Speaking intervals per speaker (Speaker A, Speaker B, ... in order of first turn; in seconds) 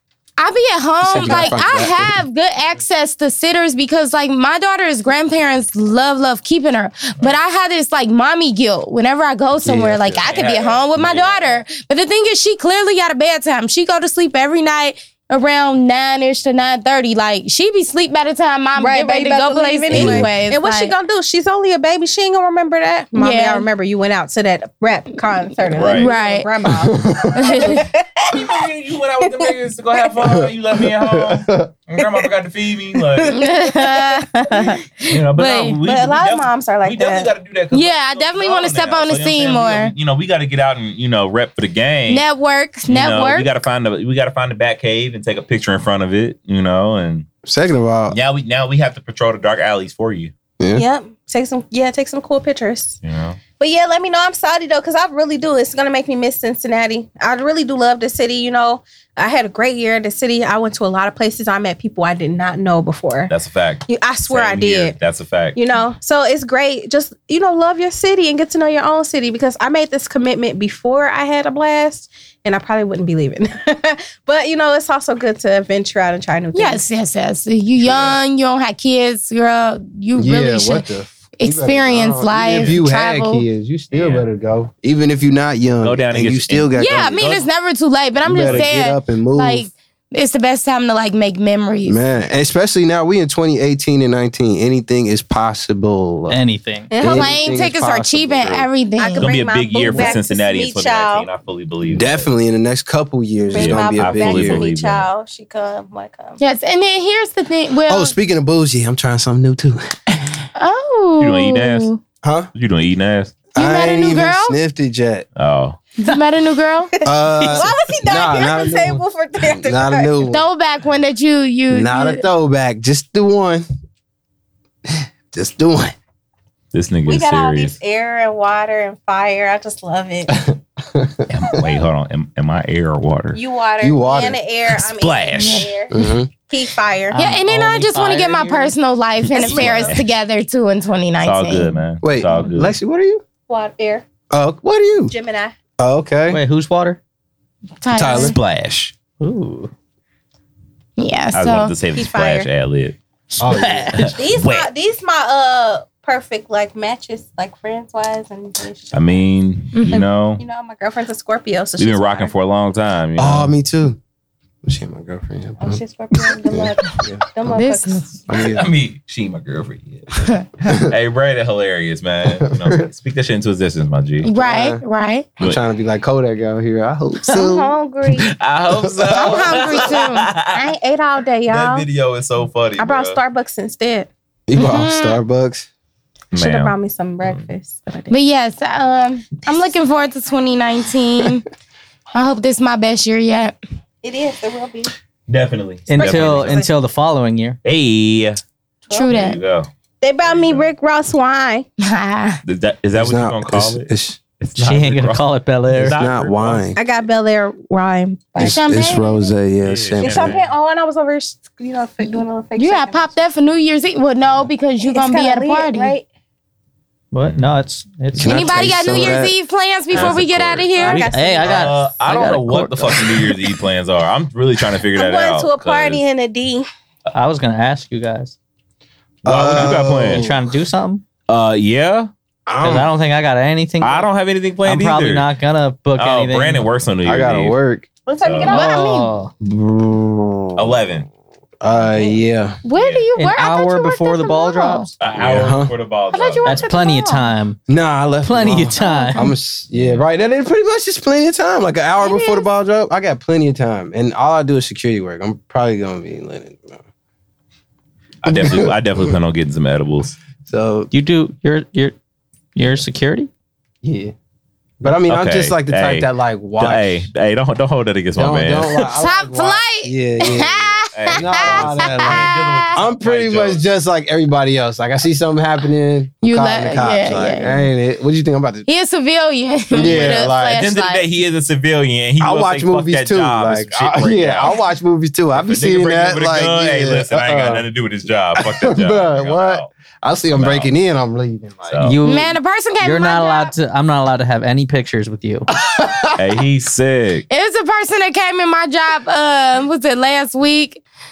Speaker A: 0.4-20.9, 23.1-23.7, 25.9-26.5, 27.3-27.8, 33.3-35.8, 37.7-39.9, 42.1-43.5, 76.5-80.9, 81.4-83.4, 86.8-92.0, 97.0-99.3, 106.4-108.1, 110.6-112.0, 113.5-114.5, 116.0-116.9, 120.2-122.2, 135.4-135.7, 137.1-141.8, 147.8-148.3, 151.0-151.8, 159.7-160.0, 167.5-168.1, 174.2-175.3, 179.1-180.4, 184.5-185.2, 188.1-191.4, 192.1-193.6, 198.9-199.4, 201.8-202.4, 208.3-209.3, 212.0-215.9, 218.2-221.1, 238.4-239.1, 242.6-244.9, 246.1-247.2, 248.8-249.3, 252.0-252.4, 268.8-272.8, 276.2-277.6, 278.6-281.1, 292.0-293.5, 297.3-300.8
Speaker B: 1.0-2.2, 9.6-10.2, 19.9-20.3, 26.7-27.6, 31.0-31.7, 47.4-48.1, 50.6-50.8, 80.2-87.2, 88.2-89.7, 91.8-96.4, 97.0-98.7, 99.8-100.1, 101.9-104.6, 107.9-110.4, 112.2-112.5, 113.5-115.2, 117.0-120.4, 121.7-123.6, 124.9-125.9, 130.5-131.2, 133.8-134.4, 135.9-136.3, 142.0-143.2, 144.3-145.1, 145.8-146.4, 147.9-148.3, 153.4-154.1, 163.2-164.0, 164.6-165.8, 166.5-167.3, 168.3-168.7, 170.7-170.9, 172.4-172.8, 174.3-174.8, 175.4-178.2, 184.5-185.7, 202.9-204.2, 205.9-206.8, 208.4-210.4, 218.2-219.3, 229.2-230.5, 232.4-232.9, 237.0-237.9, 238.5-238.8, 239.4-240.7, 241.6-242.6, 245.2-245.7, 247.7-256.8, 258.2-258.8, 260.4-260.9, 263.8-264.1, 264.8-267.1, 268.1-278.6, 279.7-280.6, 282.2-287.6, 288.4-291.8, 295.6-296.1
Speaker C: 1.1-1.5, 18.8-28.5, 35.8-37.3, 50.7-53.0, 53.6-63.3, 63.9-65.0, 65.5-76.8, 96.9-97.4, 99.0-101.3, 103.5-106.4, 117.0-120.2, 127.1-130.4, 133.3-137.2, 143.5-144.0, 145.1-145.5, 151.9-152.5, 154.2-159.2, 159.9-162.3, 165.6-168.0, 177.3-178.3, 180.5-181.8, 182.8-184.1, 186.3-188.1, 194.0-194.9, 195.9-196.7, 198.9-199.3, 200.0-201.7, 206.7-208.9, 210.0-213.2, 214.8-216.1, 220.7-221.7, 224.9-226.7, 238.1-238.8, 241.8-242.2, 246.3-247.2
Speaker D: 10.1-11.6, 25.7-26.1, 27.6-33.5, 35.0-42.2, 42.9-47.3, 48.1-50.3, 53.0-53.4, 63.3-65.6, 77.8-78.2, 82.5-82.8, 83.9-84.2, 85.8-87.5, 88.4-88.7, 99.1-102.3, 103.5-105.1, 111.2-111.9, 112.5-113.4, 115.3-115.8, 126.7-127.8, 131.3-133.4, 134.7-135.7, 139.3-140.1, 141.2-142.7, 148.0-148.9, 151.3-153.0, 153.9-154.7, 158.9-160.4, 161.8-163.5, 168.3-174.3, 178.3-180.7, 181.5-183.2, 186.3-187.4, 195.3-196.7, 197.6-198.4, 199.1-199.7, 200.2-200.7, 202.4-206.7, 209.6-210.4, 217.2-217.5, 219.9-226.0, 229.2-230.3, 231.3-232.1, 233.8-235.3, 235.9-237.6, 238.2-238.7, 240.6-241.1, 242.7-243.1, 245.0-246.7, 249.7-250.0, 258.2-260.2, 264.9-268.8, 270.9-273.6, 279.8-284.6, 285.3-289.7, 290.3-290.7, 291.7-292.0, 296.2-297.2
Speaker E: 96.3-96.9, 137.1-138.8, 146.3-147.0, 149.2-149.7, 153.3-154.2, 195.9-197.6, 204.6-206.0, 217.1-219.2, 220.8-223.3, 227.1-228.3, 229.6-231.0, 232.6-234.1, 234.6-236.7, 238.5-239.3, 243.2-244.9, 246.4-247.6, 248.2-249.3, 260.9-261.9, 262.5-263.3, 291.8-295.5